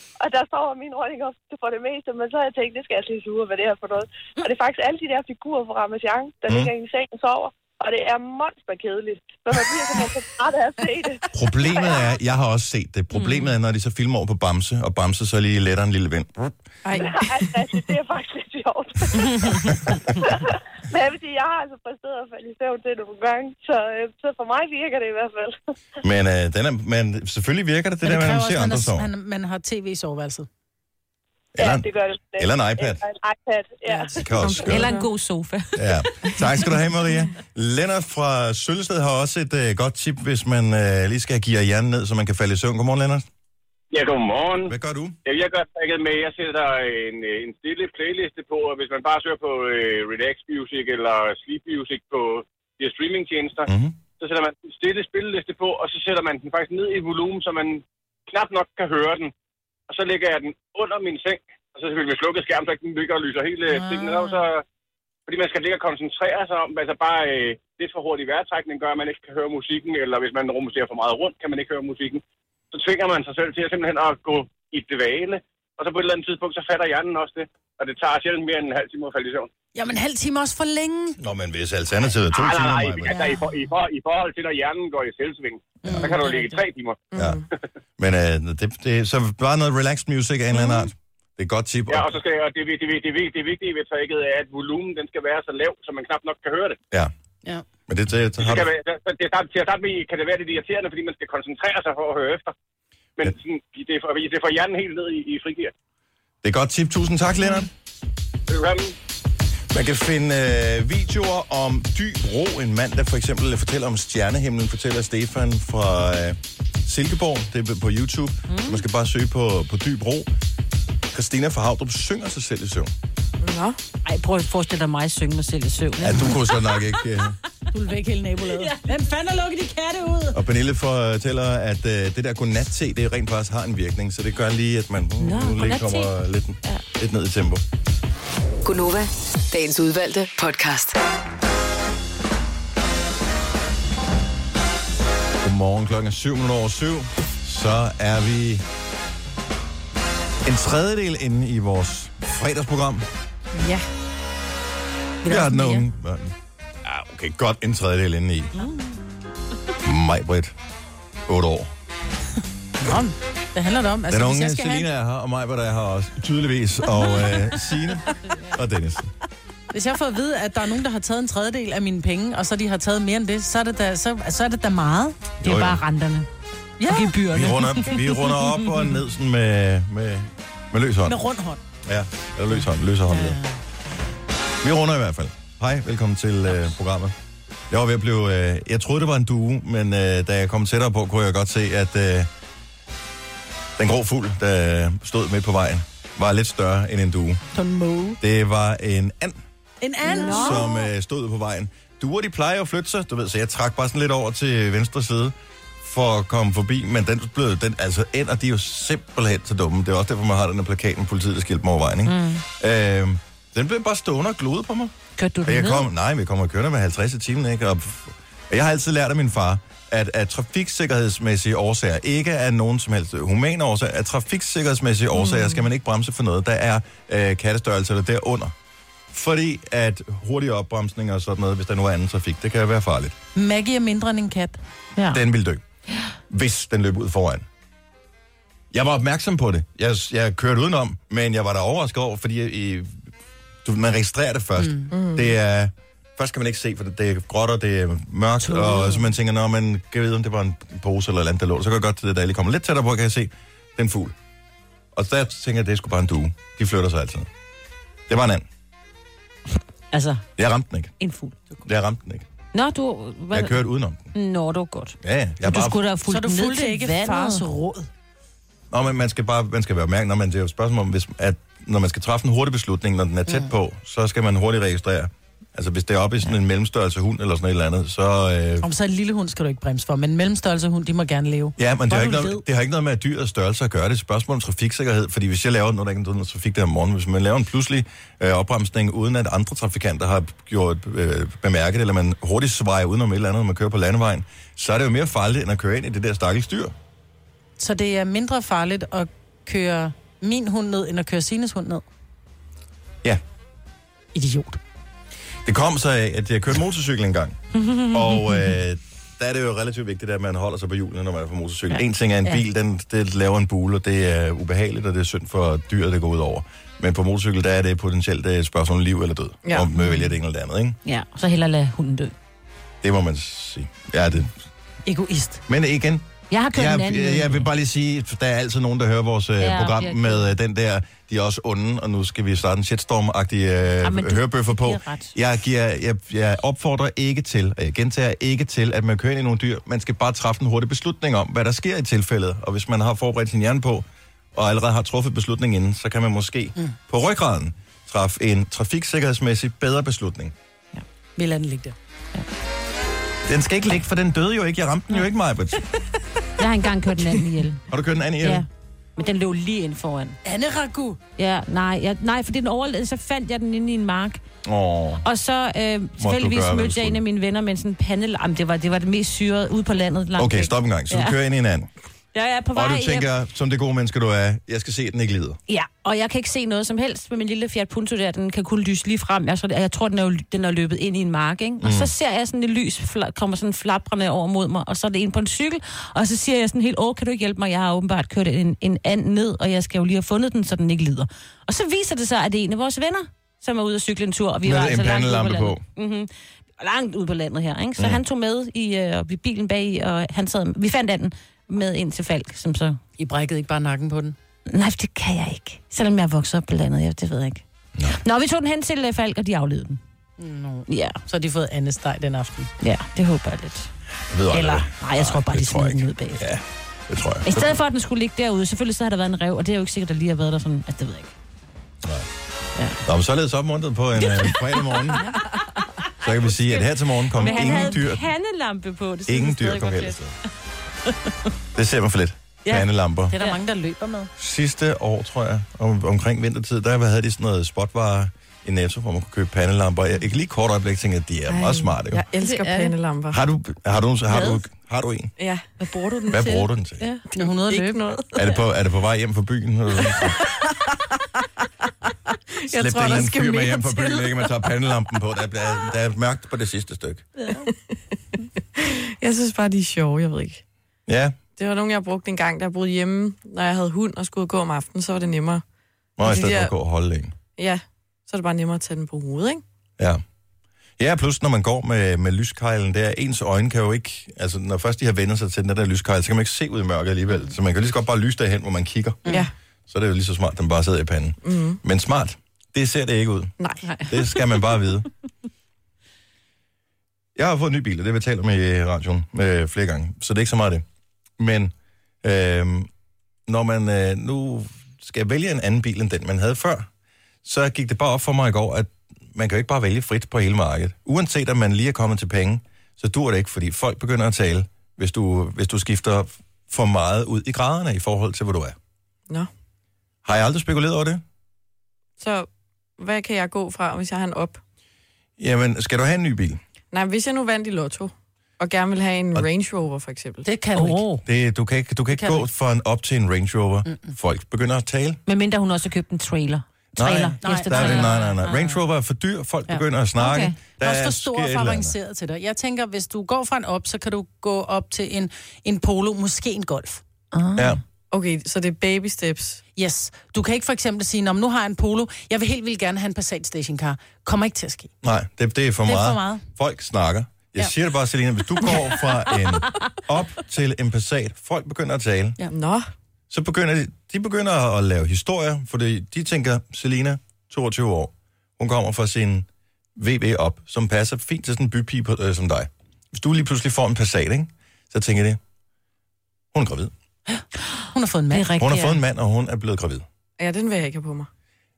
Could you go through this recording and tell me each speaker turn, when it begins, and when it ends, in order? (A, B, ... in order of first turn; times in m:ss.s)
0:00.2-0:12.0 A
0:06.5-0:06.7 B
0:11.3-0:16.5 B
0:13.1-0:13.5 C
0:16.8-0:17.2 D
0:16.9-0:25.6 A
0:19.8-0:20.2 B
0:26.0-0:29.1 B
0:28.0-0:30.5 E
0:31.5-0:33.0 B
0:31.6-0:34.2 A
0:33.8-0:34.2 E
0:34.2-0:34.9 B
0:34.4-0:35.1 D
0:34.6-0:36.7 C
0:35.8-0:43.3 B
0:43.9-0:44.7 F
0:44.7-0:45.2 B
0:45.2-0:59.3 F
0:53.7-0:54.0 B
0:59.9-1:04.6 F
1:03.7-1:04.4 E
1:05.3-1:19.5 F
1:19.7-1:21.2 E
1:21.2-1:23.2 B
1:22.3-1:27.1 F
1:25.8-1:26.6 E
1:27.1-1:27.4 D
1:27.1-1:27.4 B
1:28.0-1:32.2 B
1:31.9-1:36.8 F
1:37.9-1:38.7 B
1:38.4-1:42.5 F
1:43.2-1:45.7 F
1:46.4-1:47.7 B
1:48.5-1:48.9 F
1:49.7-2:00.3 B
1:58.5-1:58.8 C
2:01.1-2:02.9 B
2:03.4-2:03.8 D
2:04.0-2:06.9 C
2:06.0-2:07.4 B
2:07.7-2:10.4 E
2:08.5-2:08.8 C
2:10.3-2:17.6 B
2:15.2-2:16.1 C
2:18.6-2:21.0 G
2:25.4-2:28.6 B
2:30.4-2:33.1 B
2:33.5-2:33.8 E
2:35.2-2:38.5 B
2:35.3-2:35.8 C
2:39.8-2:40.5 B
2:41.3-2:41.7 B
2:42.8-2:44.9 E
2:44.1-2:49.1 B
2:49.7-2:55.4 E
2:55.4-2:55.8 B
2:55.4-2:56.3 C
2:56.8-2:57.9 E
2:56.9-2:58.8 C
2:57.3-3:01.2 B
3:01.0-3:01.6 E
3:01.8-3:03.4 B
3:03.1-3:03.5 E
3:04.6-3:07.1 B
3:07.7-3:12.3 B
3:13.8-3:17.4 B
3:17.5-3:18.2 E
3:18.2-3:19.4 B
3:19.8-3:20.6 E
3:20.1-3:20.9 C
3:20.2-3:48.5 B
3:32.0-3:32.4 C
3:35.2-3:35.9 C
3:45.2-3:45.4 D
3:49.1-3:53.1 B
3:53.3-3:54.6 E
3:55.0-3:55.2 C
3:55.1-3:55.6 B
3:56.3-3:57.4 B
3:58.7-4:03.0 B
4:03.6-4:14.1 B
4:04.6-4:04.9 E
4:04.9-4:05.3 D
4:08.5-4:09.0 E
4:14.9-4:17.3 B
4:18.1-4:18.5 B
4:19.9-4:20.2 C
4:20.4-4:21.0 B
4:21.0-4:21.5 C
4:21.6-4:22.2 B
4:22.5-4:23.6 C
4:23.3-4:24.1 B
4:24.1-4:27.5 C
4:25.0-4:25.8 B
4:26.0-4:27.9 E
4:28.7-4:38.6 B
4:38.6-4:42.4 E
4:41.6-4:56.7 B
4:57.6-5:01.8 E
5:04.1-5:04.6 E
5:05.4-5:20.8 B
5:07.7-5:08.2 C
5:20.8-5:22.1 C
5:22.8-5:24.3 B
5:24.8-5:25.4 E
5:25.5-5:50.3 B
5:26.3-5:27.5 C
5:29.4-5:30.3 C
5:33.8-5:35.1 C
5:51.2-5:51.8 E
5:53.2-5:55.6 B
5:56.4-5:57.6 C
5:57.7-5:58.4 B
5:58.2-6:00.2 C
6:00.2-6:01.0 E
6:01.2-6:04.2 C
6:04.4-6:05.0 B
6:05.0-6:11.2 C
6:06.0-6:07.0 B
6:10.2-6:11.7 B
6:12.1-6:13.1 C
6:12.5-6:15.4 B
6:15.5-6:42.8 C
6:21.6-6:21.9 B
6:34.4-6:35.6 B
6:43.0-6:44.2 E
6:44.5-6:49.8 C
6:50.2-6:52.5 E
6:50.7-6:51.0 C
6:52.6-6:53.7 C
6:54.1-6:57.5 B
6:54.3-6:56.2 C
6:57.2-7:01.1 C
7:01.8-7:02.1 B
7:02.8-7:05.1 B
7:04.0-7:10.0 C
7:06.0-7:08.1 B
7:07.2-7:07.6 E
7:09.1-7:10.1 B
7:10.9-7:11.1 C
7:11.5-7:13.2 B
7:13.1-7:14.1 E
7:14.2-7:22.0 B
7:21.3-7:23.2 D
7:22.2-7:22.7 C
7:23.1-7:25.1 B
7:24.1-7:24.4 C
7:25.2-7:25.4 D
7:25.6-7:27.0 C
7:26.1-7:26.8 B
7:27.1-7:27.8 E
7:27.2-7:28.3 D
7:28.1-7:30.2 B
7:32.4-7:34.2 D
7:32.5-7:37.1 B
7:38.6-7:40.4 D
7:40.9-7:41.2 B
7:41.4-7:45.4 D
7:46.0-7:47.1 B
7:46.0-7:46.5 D
7:47.4-7:49.4 D
7:50.8-7:59.0 B
7:59.0-7:59.3 D
7:59.7-8:03.4 B
8:01.2-8:01.6 D
8:03.4-8:03.6 D
8:03.9-8:04.9 B
8:07.2-8:10.6 B
8:11.2-8:12.7 B
8:13.3-8:16.7 B
8:17.2-8:28.6 B
8:30.0-8:31.0 B
8:32.0-8:34.4 D
8:35.2-8:36.4 B
8:36.7-8:40.2 D
8:40.2-8:41.0 E
8:40.6-8:40.8 C
8:41.0-8:45.0 B
8:41.9-8:42.2 E
8:43.7-8:43.9 E
8:45.1-8:48.5 C
8:46.8-8:51.7 B
8:47.2-8:48.1 E
8:50.0-8:50.3 C
8:50.6-8:56.8 E
8:57.1-8:57.6 C
8:57.9-8:59.4 D
8:59.6-9:04.7 E
9:04.8-9:12.2 B
9:05.6-9:06.2 E
9:12.3-9:12.7 D
9:13.1-9:25.2 B
9:26.3-9:26.7 B
9:27.7-9:28.6 E
9:28.1-9:28.7 C
9:28.4-9:29.8 B
9:30.2-9:31.1 D